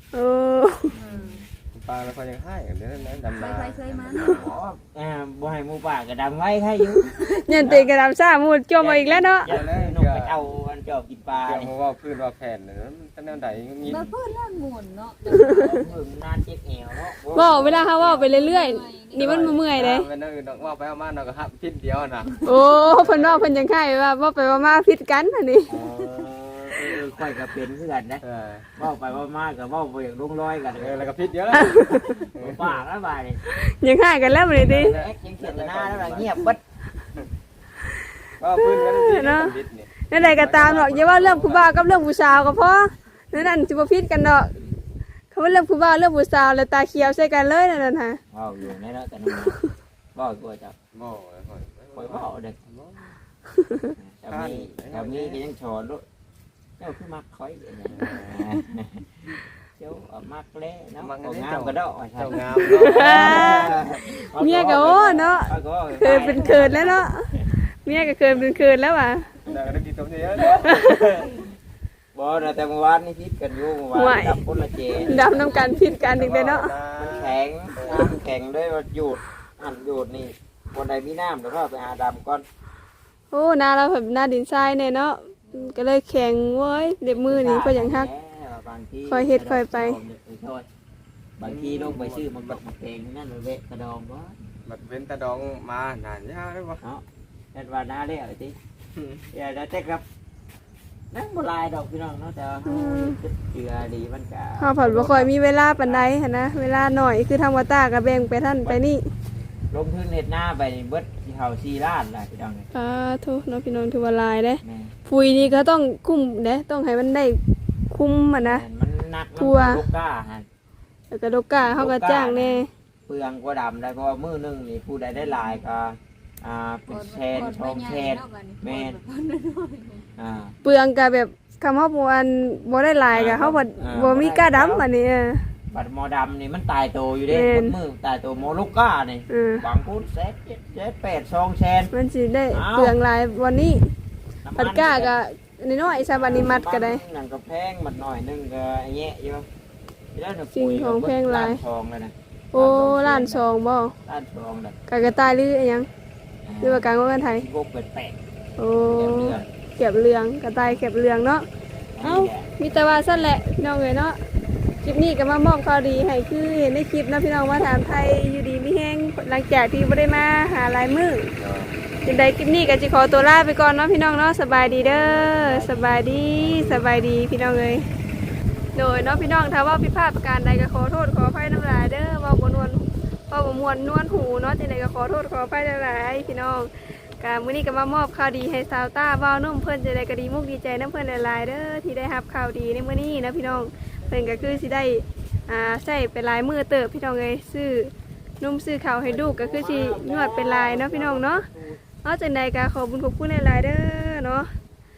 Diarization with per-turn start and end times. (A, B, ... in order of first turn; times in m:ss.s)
0:00.1-0:00.9 A
0:00.9-0:01.4 B
0:00.9-0:01.5 C
0:01.7-0:04.5 D
0:03.3-0:04.4 B
0:04.2-0:07.9 C
0:07.0-0:07.7 B
0:07.4-0:09.5 A
0:08.8-0:10.3 D
0:08.9-0:11.7 C
0:11.4-0:14.1 D
0:13.8-0:15.9 B
0:15.4-0:18.0 C
0:17.3-0:20.1 A
0:17.9-0:19.5 B
0:19.1-0:23.6 D
0:22.4-0:25.8 A
0:25.7-0:28.2 C
0:28.2-0:28.7 D
0:28.8-0:33.4 C
0:30.8-0:32.8 D
0:31.5-0:32.2 A
0:33.5-0:35.0 A
0:34.5-0:36.5 D
0:34.7-0:36.6 C
0:38.4-0:41.8 D
0:38.5-0:39.6 A
0:40.1-0:44.6 A
0:45.3-0:48.2 A
0:48.3-0:49.6 C
0:50.2-0:50.8 C
0:50.9-0:53.1 D
0:52.0-0:52.6 C
0:53.6-0:53.9 A
0:54.0-0:56.0 C
0:54.3-0:55.4 D
0:56.8-1:07.5 C
0:57.9-0:58.5 D
1:01.0-1:03.8 D
1:02.7-1:03.7 A
1:04.3-1:07.3 A
1:07.8-1:09.4 A
1:09.4-1:11.4 D
1:10.6-1:11.2 A
1:12.2-1:15.3 C
1:13.9-1:14.4 A
1:14.9-1:16.7 A
1:15.2-1:18.1 D
1:17.0-1:22.4 C
1:23.3-1:28.1 A
1:27.2-1:30.6 C
1:29.1-1:30.0 A
1:31.4-1:34.4 C
1:31.4-1:32.6 D
1:34.7-1:36.8 D
1:36.8-1:38.6 C
1:39.0-1:39.2 D
1:39.3-1:40.0 C
1:41.1-1:46.0 C
1:42.7-1:43.2 A
1:44.6-1:49.0 A
1:49.7-1:52.7 C
1:52.7-1:57.4 A
1:54.6-1:55.0 C
1:57.9-1:58.6 A
1:58.4-2:00.5 C
1:59.4-1:59.8 A
2:01.1-2:02.7 A
2:01.6-2:09.0 C
2:06.9-2:10.1 B
2:10.2-2:10.5 C
2:10.6-2:15.4 A
2:13.1-2:14.9 C
2:15.7-2:21.9 C
2:17.3-2:17.8 A
2:19.3-2:19.6 A
2:21.9-2:23.9 A
2:22.5-2:23.0 C
2:24.4-2:25.2 C
2:24.6-2:27.0 A
2:26.1-2:29.5 C
2:30.1-2:33.5 C
2:30.5-2:31.6 A
2:32.5-2:34.0 A
2:34.1-2:34.8 C
2:34.9-2:35.9 A
2:36.5-2:38.2 C
2:36.6-2:37.4 A
2:38.6-2:41.4 A
2:38.8-2:39.5 C
2:42.0-2:42.5 C
2:42.0-2:44.2 A
2:44.8-2:51.3 A
2:51.4-2:51.8 D
2:52.0-2:57.9 A
2:54.6-2:56.9 C
2:58.8-3:21.4 A
3:19.0-3:21.8 C
3:22.0-3:24.5 A